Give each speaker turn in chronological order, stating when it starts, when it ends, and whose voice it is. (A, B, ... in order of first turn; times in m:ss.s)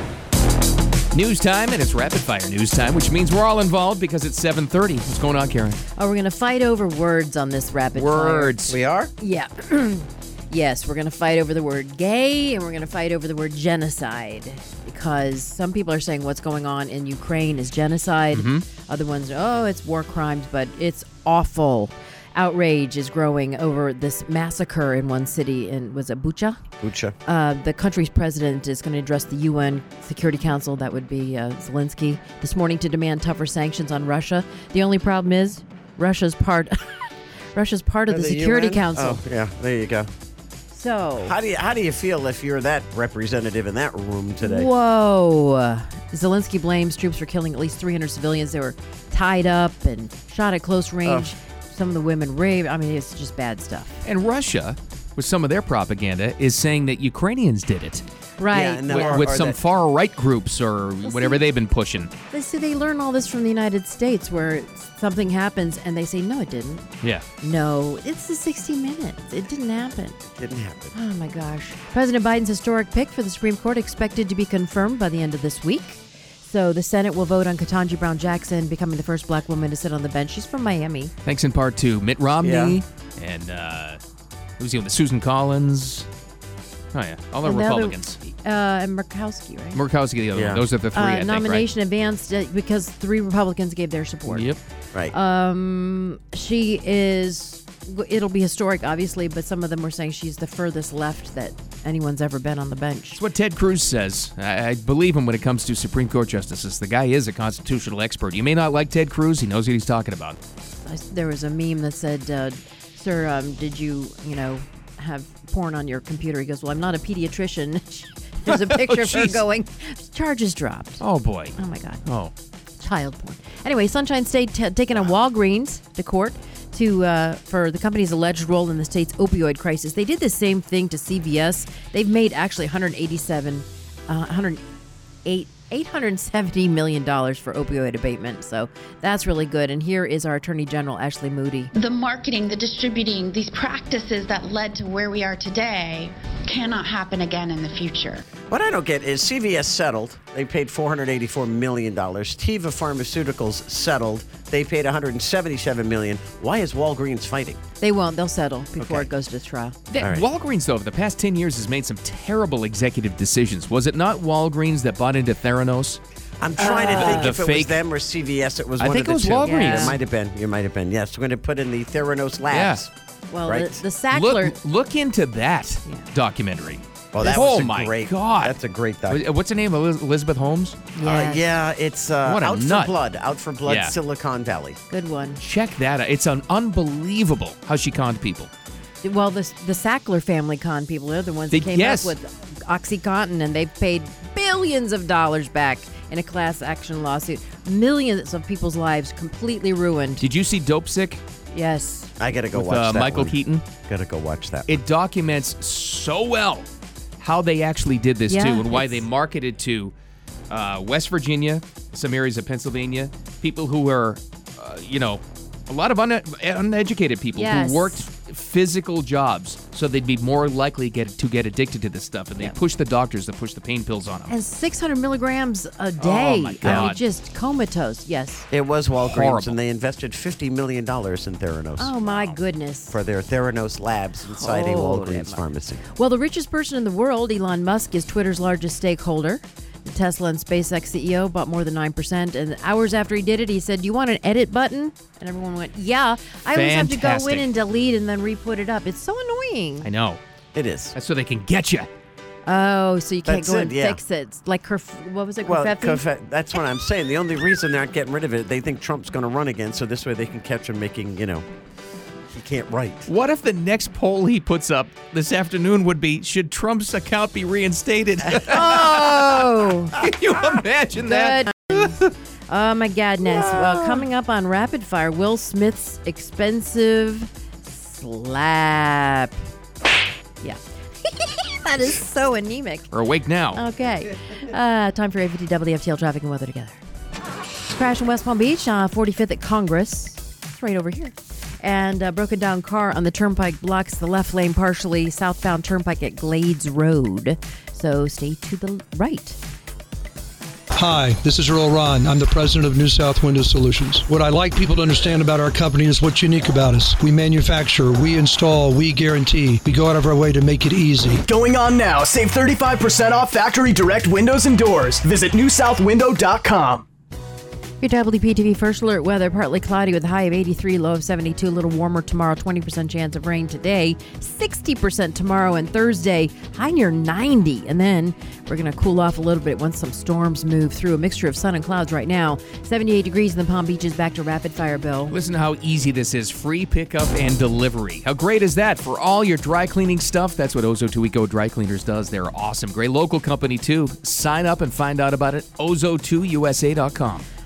0:01.1-0:05.8 A
0:06.0-0:08.6 B
0:07.9-0:08.8 A
0:08.6-0:09.1 C
0:09.2-0:26.6 B
0:18.3-0:18.6 A
0:26.8-0:27.1 C
0:27.2-0:37.0 B
0:37.5-0:39.2 B
0:38.1-0:40.1 C
0:40.7-0:41.3 B
0:41.2-0:44.7 C
0:44.4-0:54.0 B
0:51.0-0:51.3 C
0:54.0-0:58.0 A
0:58.4-0:59.1 B
0:58.5-0:59.6 C
0:58.9-1:02.1 A
1:01.0-1:01.4 B
1:02.3-1:06.8 B
1:07.4-1:10.2 B
1:10.3-1:10.9 C
1:10.9-1:21.1 B
1:21.2-1:24.0 A
1:22.4-1:22.8 C
1:24.6-1:26.1 A
1:26.9-1:28.2 A
1:27.4-1:29.8 B
1:29.7-1:31.6 A
1:30.3-1:30.6 C
1:30.9-1:34.5 B
1:34.3-1:34.6 A
1:35.1-1:43.2 B
1:43.1-1:50.4 A
1:50.8-2:01.0 B
1:58.5-1:59.4 A
2:01.0-2:02.3 A
2:01.6-2:02.0 B
2:02.8-2:14.6 B
2:15.2-2:21.7 B
2:21.7-2:28.2 D
2:28.5-2:37.6 C
2:37.8-2:39.8 B
2:38.8-2:39.1 C
2:39.9-2:46.0 A
2:40.0-2:40.3 C
2:46.4-2:52.9 C
2:46.7-2:47.8 A
2:48.8-2:50.0 A
2:49.4-2:50.0 B
2:52.5-2:52.8 A
2:53.3-2:54.6 B
2:53.5-2:53.8 C
2:54.1-2:58.6 A
2:57.1-2:59.2 C
2:59.1-3:00.8 A
3:00.9-3:01.6 B
3:01.0-3:04.8 C
3:02.2-3:02.9 A
3:03.6-3:03.9 A
3:04.9-3:05.4 B
3:05.4-3:08.5 A
3:09.0-3:20.2 B
3:11.5-3:12.1 A
3:20.2-3:21.2 A
3:21.5-3:22.1 B
3:22.2-3:24.8 C
3:22.5-3:23.7 A
3:24.7-3:26.6 A
3:27.2-3:29.9 A
3:28.3-3:29.0 B
3:30.5-3:44.3 A
3:37.3-3:38.0 B
3:44.3-3:48.5 B
3:46.0-3:47.0 A
3:46.6-3:46.9 C
3:48.5-3:52.4 C
3:49.0-3:49.6 A
3:51.8-3:52.9 B
3:52.9-3:55.8 C
3:54.2-3:55.4 B
3:55.9-4:09.9 B
4:06.5-4:07.4 A
4:09.8-4:10.2 A
4:10.5-4:11.0 C
4:10.9-4:11.9 A
4:12.4-4:16.0 B
4:13.2-4:14.0 C
4:15.4-4:21.4 C
4:22.3-4:23.1 C
4:23.0-4:29.1 A
4:28.4-4:30.0 B
4:29.9-4:32.1 A
4:31.0-4:31.9 B
4:32.5-4:39.4 B
4:40.4-4:42.9 B
4:42.9-4:43.6 A
4:43.5-4:46.8 B
4:47.7-4:59.4 B
5:00.7-5:11.3 E
5:11.3-5:16.8 F
5:17.8-5:35.1 B
5:35.1-5:47.2 A